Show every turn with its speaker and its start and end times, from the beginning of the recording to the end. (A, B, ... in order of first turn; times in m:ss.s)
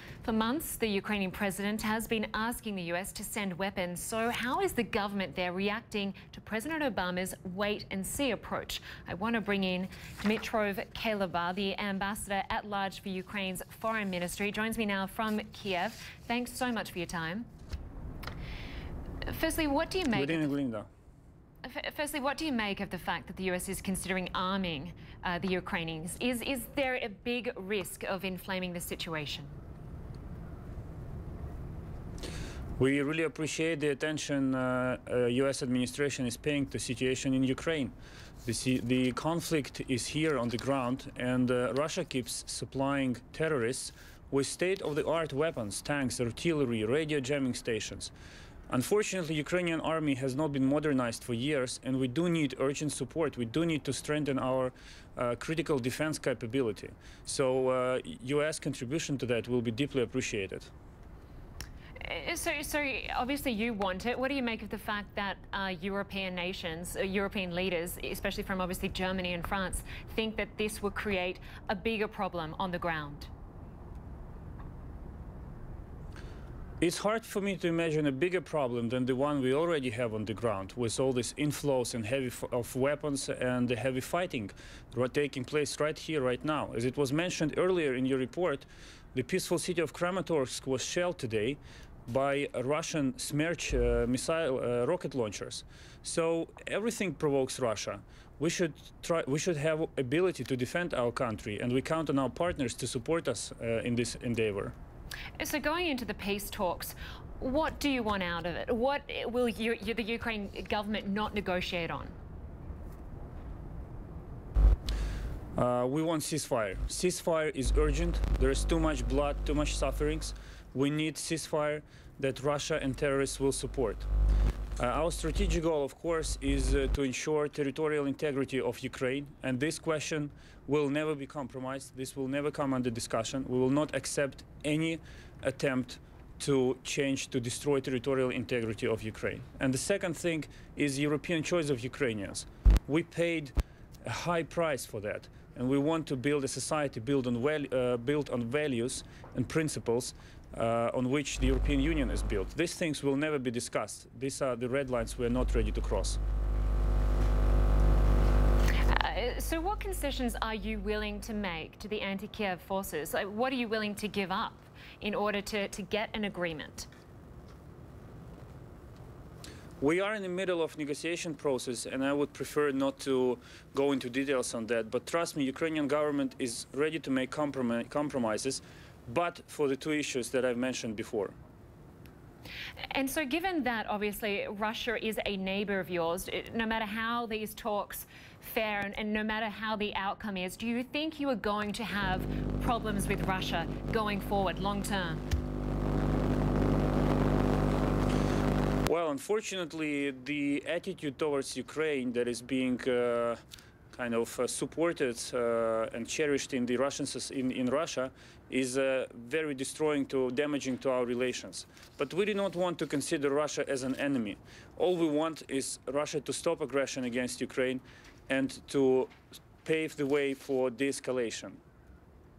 0:00.2-0:17.5 A
0:19.2-0:20.5 A
0:20.1-0:20.9 B
0:21.6-0:29.6 A
0:32.8-0:48.1 B
0:48.7-1:00.7 B
1:02.0-1:13.3 A
1:16.8-1:44.7 B
1:45.4-1:52.1 A
1:55.6-2:04.1 B
2:04.8-2:36.2 B
2:38.8-2:46.9 A
2:49.8-3:01.4 B
3:02.9-3:15.2 A
3:18.9-3:23.4 B
3:23.9-3:39.1 B
3:39.6-3:41.6 B